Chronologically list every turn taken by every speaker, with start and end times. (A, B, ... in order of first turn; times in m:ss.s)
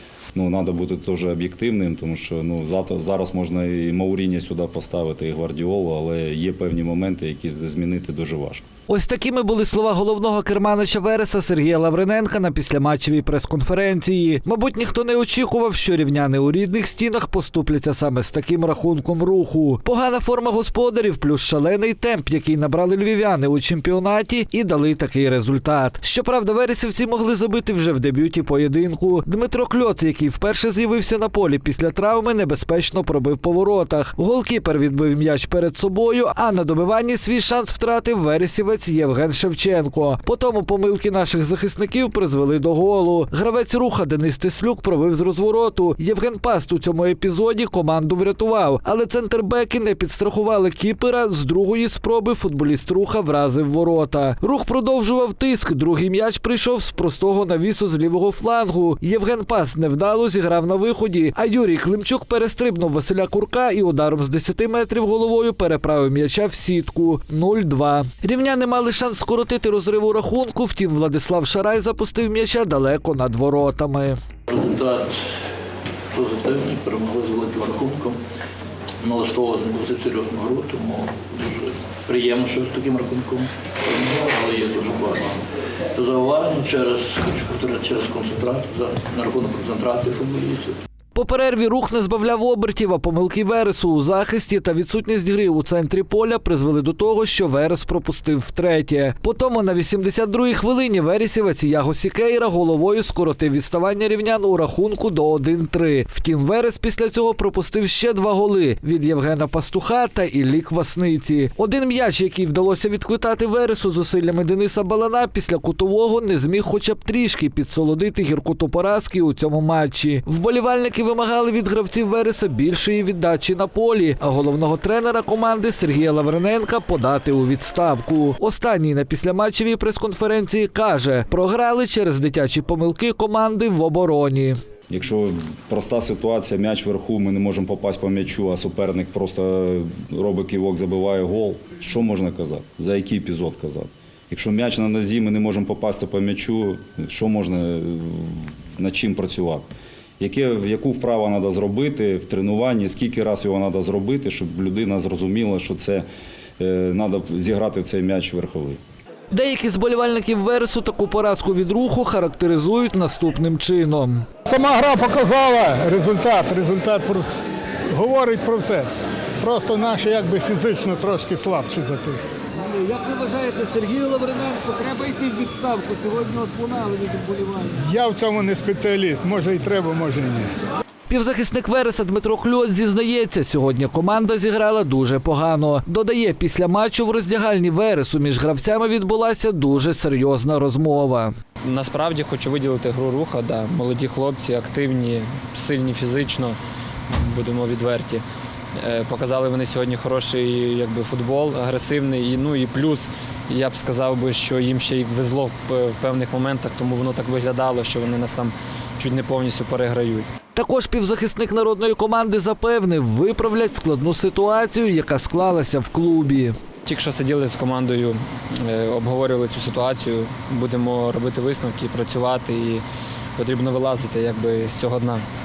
0:00.4-0:08.6 A
0:08.9-1:14.2 B
1:14.5-1:15.2 C
1:16.1-1:18.2 C
1:19.0-1:25.4 C
1:26.0-1:30.7 C
1:31.2-2:14.6 B
2:14.9-2:29.7 A
2:30.2-2:36.1 A
2:36.6-2:38.8 A
2:39.3-2:44.3 B
2:44.5-2:48.9 D
2:49.4-2:52.2 D
2:52.6-2:57.8 B
2:57.8-3:00.5 D
3:01.1-3:11.3 B
3:11.6-3:16.6 E
3:17.1-3:18.2 E
3:18.8-3:30.3 E
3:30.6-3:36.5 B
3:36.8-3:42.8 E
3:43.4-3:45.3 E